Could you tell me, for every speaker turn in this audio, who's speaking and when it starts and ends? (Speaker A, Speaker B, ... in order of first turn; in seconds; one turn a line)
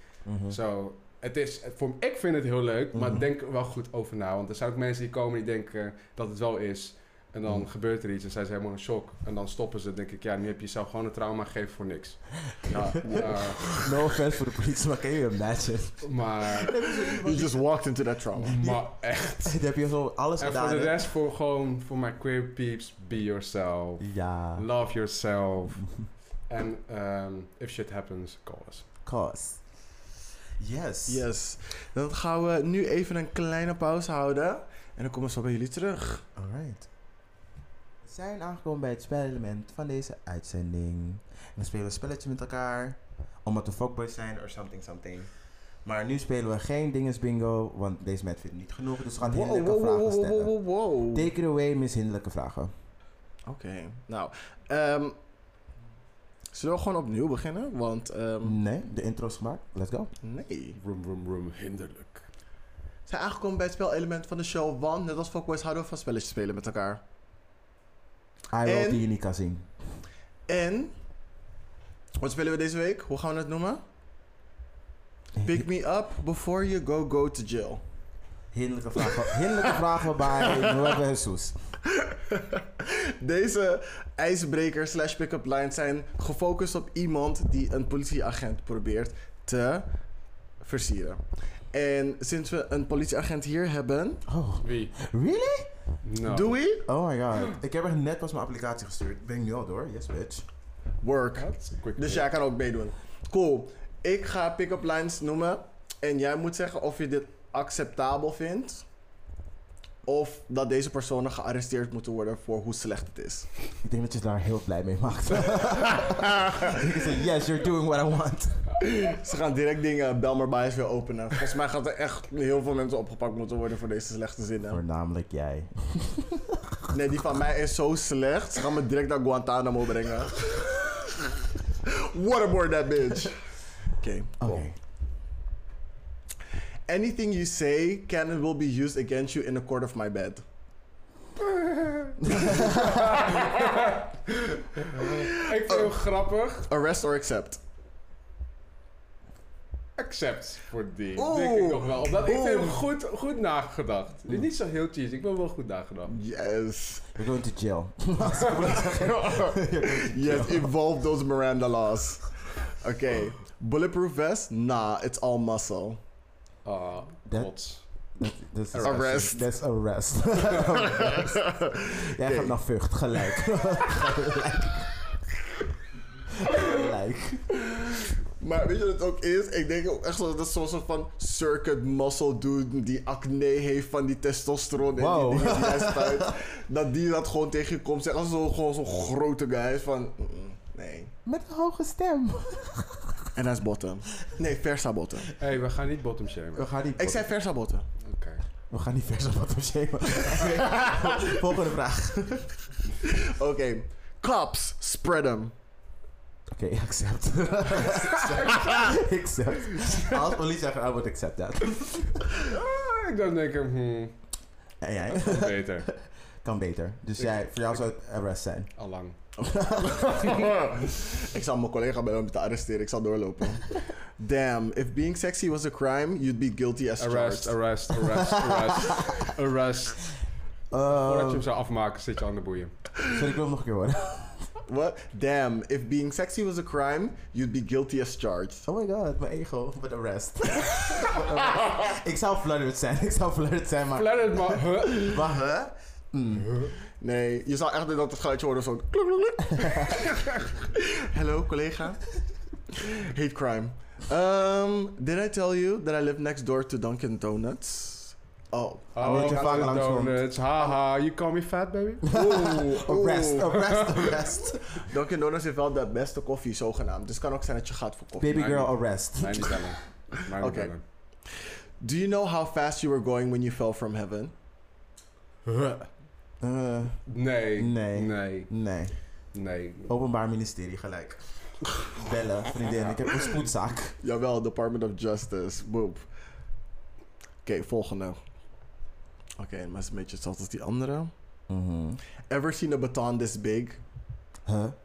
Speaker A: 0.3-0.6
Speaker B: 0.5-13.8
Speaker A: 2.9-3.3
Speaker A: 12.7-17.6
Speaker C: 13.0-13.4
Speaker B: 16.0-16.9
Speaker C: 17.1-18.6
Speaker B: 18.5-19.6
Speaker A: 18.6-18.9
Speaker A: 19.4-21.0
Speaker B: 20.4-28.9
Speaker A: 24.0-24.7
Speaker A: 29.1-29.6
Speaker A: 30.6-31.2
Speaker C: 31.1-36.2
Speaker A: 36.4-36.9
Speaker A: 38.0-45.3
Speaker A: 45.8-50.5
Speaker C: 49.2-51.3
Speaker A: 51.1-52.7
Speaker C: 53.5-55.2
Speaker C: 56.5-58.6
Speaker A: 58.4-60.1
Speaker C: 60.2-60.8
Speaker B: 60.7-62.3
Speaker C: 63.1-67.0
Speaker A: 68.5-69.7
Speaker C: 68.7-69.0
Speaker C: 70.5-70.9
Speaker C: 72.2-73.8
Speaker C: 75.4-77.8
Speaker A: 78.5-81.5
Speaker C: 80.4-80.7
Speaker C: 81.9-89.9
Speaker C: 90.6-91.2
Speaker C: 91.7-94.2
Speaker A: 94.3-95.7
Speaker B: 94.6-95.0
Speaker B: 96.0-96.6
Speaker C: 96.2-96.8
Speaker A: 96.8-100.5
Speaker C: 101.0-108.9
Speaker B: 101.4-102.3
Speaker C: 110.0-113.5
Speaker A: 113.8-118.6
Speaker C: 115.5-116.8
Speaker C: 118.8-124.8
Speaker A: 124.7-126.7
Speaker C: 126.9-131.1
Speaker C: 131.8-133.4
Speaker C: 133.9-134.6
Speaker A: 134.4-134.8
Speaker C: 136.9-140.4
Speaker B: 141.4-146.7
Speaker C: 142.2-143.6
Speaker C: 144.9-145.9
Speaker C: 146.7-147.6
Speaker B: 150.0-156.1
Speaker C: 151.2-152.8
Speaker C: 156.1-157.1
Speaker A: 157.2-160.7
Speaker C: 158.7-166.0
Speaker B: 166.7-167.8
Speaker A: 167.3-167.6
Speaker A: 168.1-175.1
Speaker B: 168.7-169.0
Speaker C: 168.8-169.5
Speaker C: 170.7-172.6
Speaker A: 176.4-177.6
Speaker C: 178.4-191.1
Speaker A: 184.9-186.2
Speaker A: 191.2-193.3
Speaker C: 193.3-195.3
Speaker B: 195.4-196.7
Speaker A: 196.6-197.3
Speaker C: 197.0-197.9
Speaker B: 198.0-198.4
Speaker A: 198.7-202.6
Speaker C: 200.6-201.3
Speaker C: 203.0-205.5
Speaker A: 206.5-212.4
Speaker B: 208.2-208.7
Speaker B: 209.8-210.1
Speaker B: 212.4-214.2
Speaker A: 214.8-218.7
Speaker B: 215.1-215.9
Speaker B: 217.2-217.8
Speaker B: 218.8-219.2
Speaker C: 219.4-227.6
Speaker A: 219.5-220.4
Speaker B: 227.0-230.2
Speaker A: 228.1-229.1
Speaker A: 230.7-231.4
Speaker B: 231.0-232.9
Speaker A: 233.1-234.5
Speaker C: 234.7-238.7
Speaker A: 238.7-246.7
Speaker B: 243.9-245.3
Speaker C: 247.0-252.0
Speaker A: 249.6-249.9
Speaker C: 252.7-259.6
Speaker B: 258.9-262.9
Speaker A: 259.0-260.2
Speaker A: 262.1-264.9
Speaker C: 262.1-263.5
Speaker B: 263.4-264.2
Speaker C: 264.8-268.5
Speaker A: 268.2-269.6
Speaker B: 268.3-270.8
Speaker C: 270.4-270.7
Speaker C: 271.8-274.3
Speaker C: 275.5-275.8
Speaker A: 276.4-278.9
Speaker B: 277.1-278.5
Speaker B: 279.3-279.9
Speaker A: 279.9-284.0
Speaker B: 282.8-283.3
Speaker C: 284.0-286.1
Speaker C: 287.4-288.2
Speaker C: 289.4-291.1
Speaker A: 291.5-292.0
Speaker C: 292.3-293.8
Speaker A: 294.4-294.8